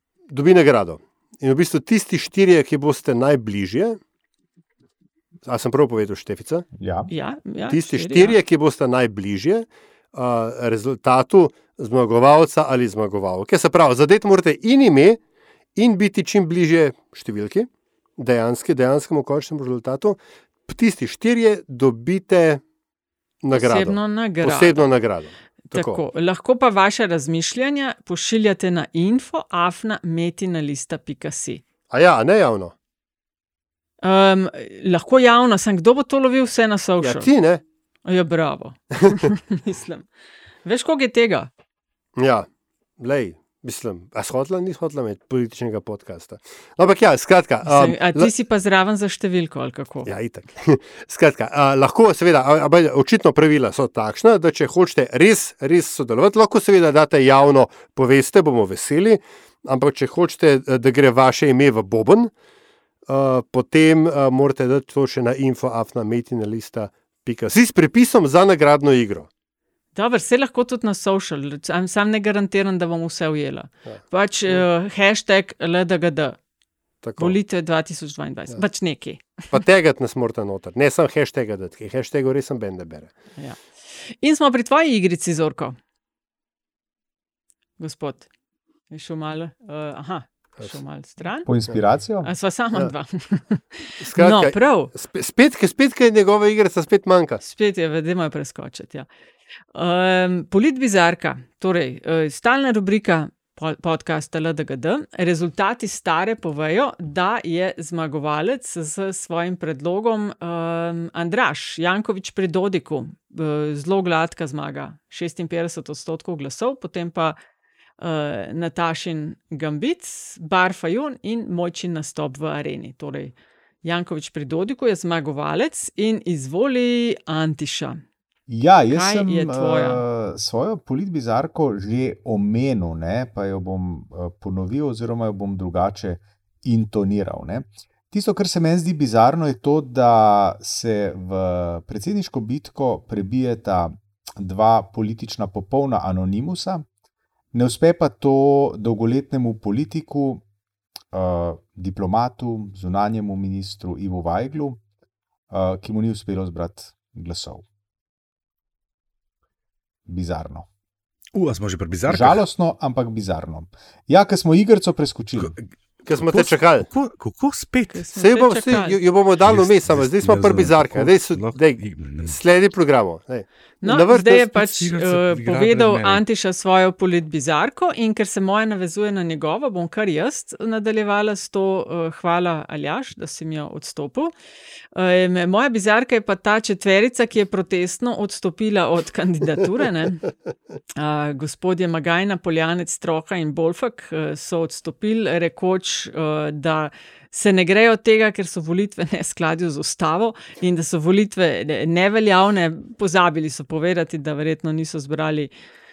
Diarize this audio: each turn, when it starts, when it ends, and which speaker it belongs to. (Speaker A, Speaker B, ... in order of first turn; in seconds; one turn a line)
Speaker A: 0.3-4.0
Speaker A: 5.4-6.7
Speaker B: 6.8-7.1
Speaker C: 7.1-8.3
Speaker A: 7.7-15.2
Speaker A: 15.8-22.6
Speaker A: 23.4-26.0
Speaker C: 23.5-24.9
Speaker C: 25.7-31.6
Speaker A: 31.9-32.7
Speaker C: 34.0-37.3
Speaker A: 37.0-37.6
Speaker C: 38.1-40.1
Speaker A: 39.0-39.3
Speaker C: 40.6-41.5
Speaker A: 42.2-42.5
Speaker A: 43.0-48.3
Speaker C: 47.6-50.1
Speaker A: 50.0-62.3
Speaker A: 63.1-69.3
Speaker C: 69.9-76.4
Speaker A: 73.8-74.7
Speaker A: 77.0-77.4
Speaker C: 77.2-79.5
Speaker A: 79.5-83.1
Speaker C: 84.2-85.8
Speaker C: 87.8-88.2
Speaker C: 88.9-91.5
Speaker B: 91.5-92.3
Speaker C: 92.2-94.9
Speaker A: 94.0-97.4
Speaker C: 97.4-99.1
Speaker C: 99.7-117.3
Speaker C: 118.0-128.0
Speaker B: 128.5-146.8
Speaker C: 128.9-130.0
Speaker B: 147.5-150.4
Speaker B: 151.1-154.8
Speaker B: 155.5-157.6
Speaker B: 160.1-160.7
Speaker D: 161.3-162.4
Speaker B: 162.1-165.5
Speaker D: 165.4-168.1
Speaker A: 166.0-166.9
Speaker C: 167.9-169.0
Speaker A: 168.2-174.5
Speaker D: 169.4-172.4
Speaker C: 173.8-184.3
Speaker D: 174.5-176.2
Speaker C: 184.9-190.2
Speaker C: 190.9-205.5